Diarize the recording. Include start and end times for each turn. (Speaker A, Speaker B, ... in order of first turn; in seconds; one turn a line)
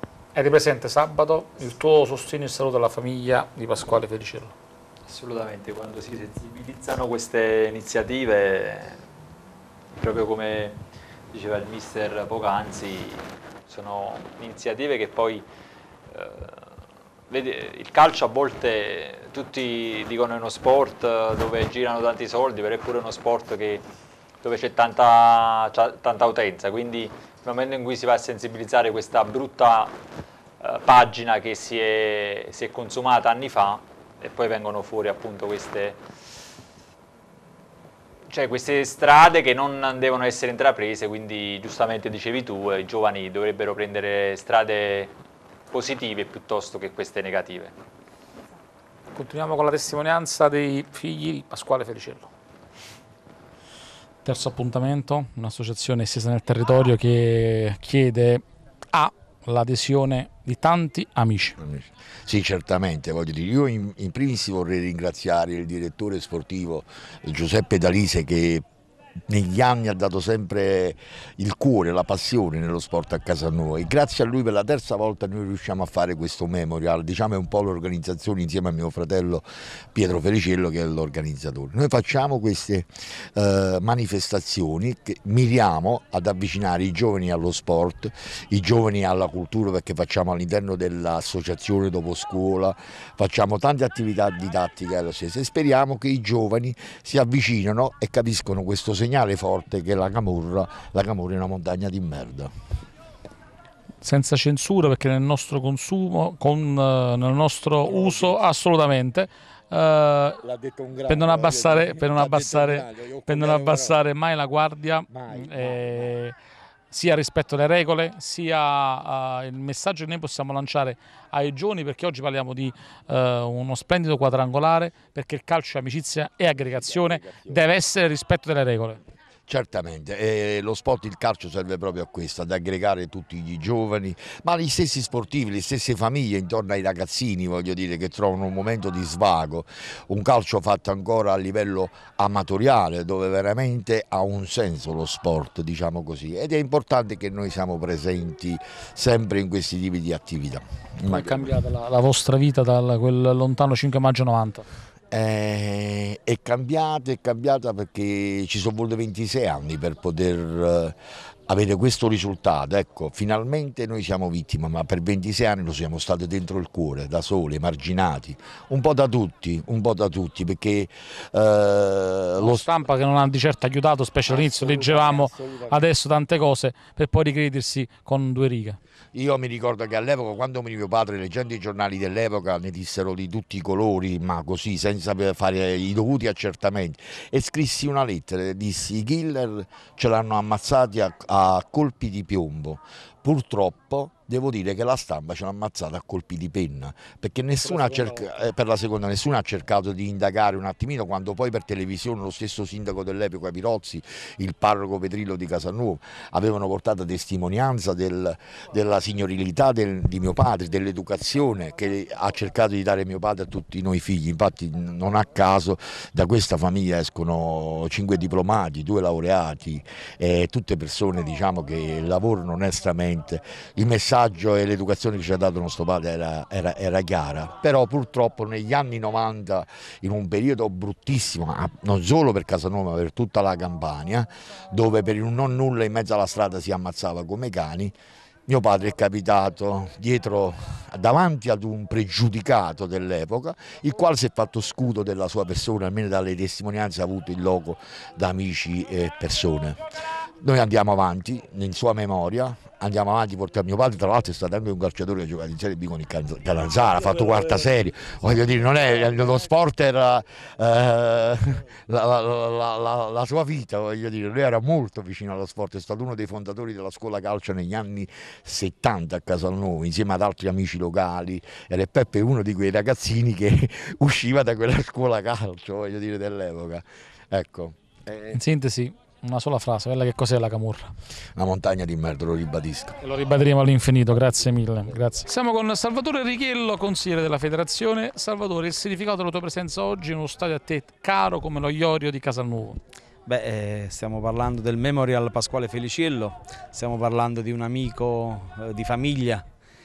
Speaker A: 0.3-4.5
Speaker B: 5.1-9.1
Speaker B: 10.0-10.8
Speaker B: 11.3-15.4
Speaker B: 16.1-16.8
Speaker B: 17.3-23.8
Speaker B: 24.4-29.9
Speaker B: 30.6-36.0
Speaker B: 38.3-45.1
Speaker B: 45.7-47.7
Speaker A: 49.1-52.3
Speaker A: 54.2-61.6
Speaker C: 61.6-68.7
Speaker C: 69.3-102.5
Speaker A: 104.0-110.4
Speaker C: 107.8-108.4
Speaker C: 110.4-114.0
Speaker A: 111.1-116.3
Speaker C: 115.1-116.2
Speaker A: 116.9-129.0
Speaker C: 126.5-127.6
Speaker C: 129.5-151.6
Speaker A: 151.1-154.7
Speaker C: 155.1-161.0
Speaker C: 161.5-172.8
Speaker A: 172.4-178.8
Speaker C: 174.3-175.8
Speaker C: 179.1-237.9
Speaker A: 197.6-198.3
Speaker C: 238.5-249.8
Speaker C: 250.4-278.4
Speaker A: 278.3-280.9
Speaker C: 281.4-283.1
Speaker A: 283.0-292.8
Speaker D: 293.3-299.4